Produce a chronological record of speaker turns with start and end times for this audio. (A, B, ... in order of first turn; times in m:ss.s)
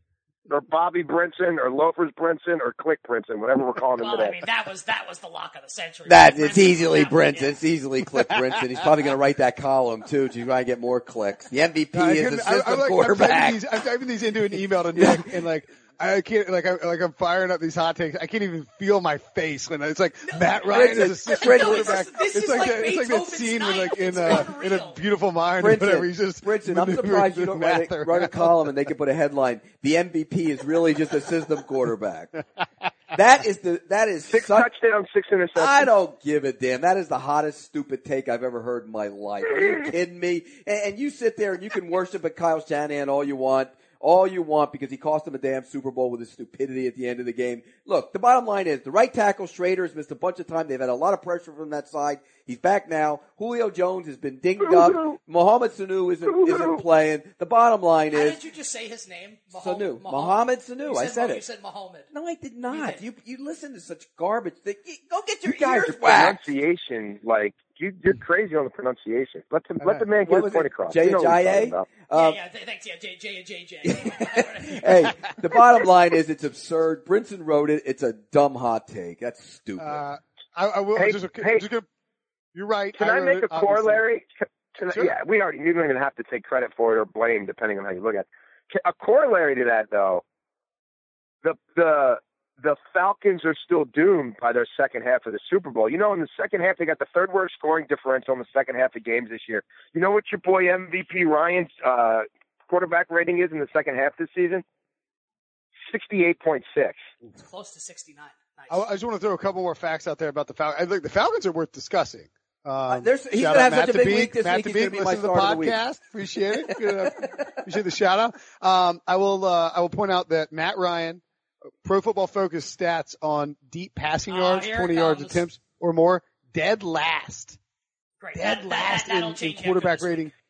0:00.5-0:04.4 A
0:04.0-0:07.6 B
0:06.1-0:13.6 C
0:12.0-0:28.6 D
0:14.9-0:15.4 C
0:20.3-0:25.0 B
0:20.7-0:22.0 C
0:25.6-0:32.3 C
0:33.1-0:34.7 C
0:34.3-0:35.9 A
0:35.6-0:58.4 C
0:54.7-0:55.2 A
0:56.3-0:56.8 A
0:58.1-1:02.1 B
0:59.5-1:01.4 C
1:02.1-1:06.4 C
1:02.7-1:03.0 B
1:05.5-1:11.9 A
1:09.8-1:10.1 D
1:10.2-1:12.4 C
1:12.1-1:15.2 B
1:13.9-1:20.0 C
1:19.8-1:21.9 D
1:21.0-1:21.7 A
1:22.5-1:24.0 D
1:23.0-1:30.2 A
1:31.4-1:44.6 A
1:45.9-1:47.0 A
1:47.4-1:48.8 B
1:48.7-2:01.2 D
1:52.9-1:55.8 C
1:56.6-1:57.4 C
2:01.8-2:07.6 D
2:04.3-2:05.4 B
2:08.2-2:10.3 B
2:08.4-2:10.3 D